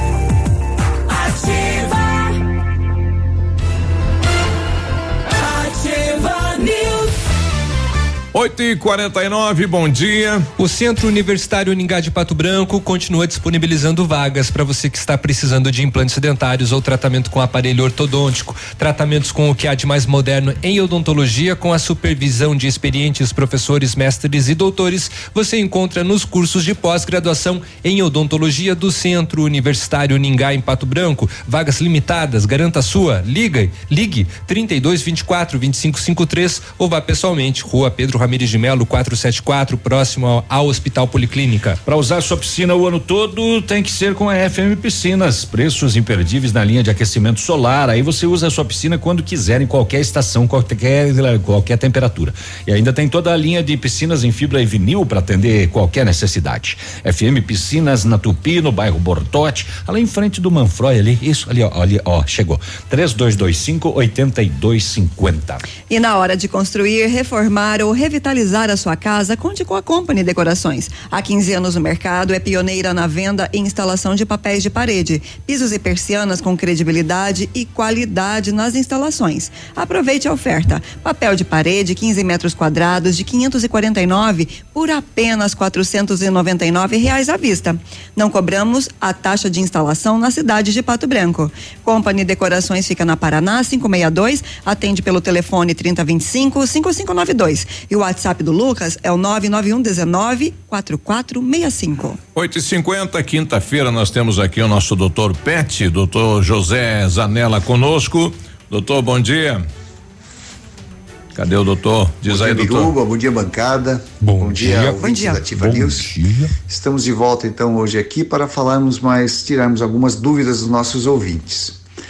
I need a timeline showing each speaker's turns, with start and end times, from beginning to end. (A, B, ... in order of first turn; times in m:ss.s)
0:08.3-0:10.5 A
0:10.6-0:41.8 B
0:41.8-1:05.6 C
1:05.9-1:42.2 D
1:42.4-1:49.6 A
1:51.4-1:52.9 A
1:52.3-1:56.1 E
1:54.2-1:56.4 B
1:55.0-1:55.5 D
1:55.6-1:56.0 C
1:56.7-2:01.8 E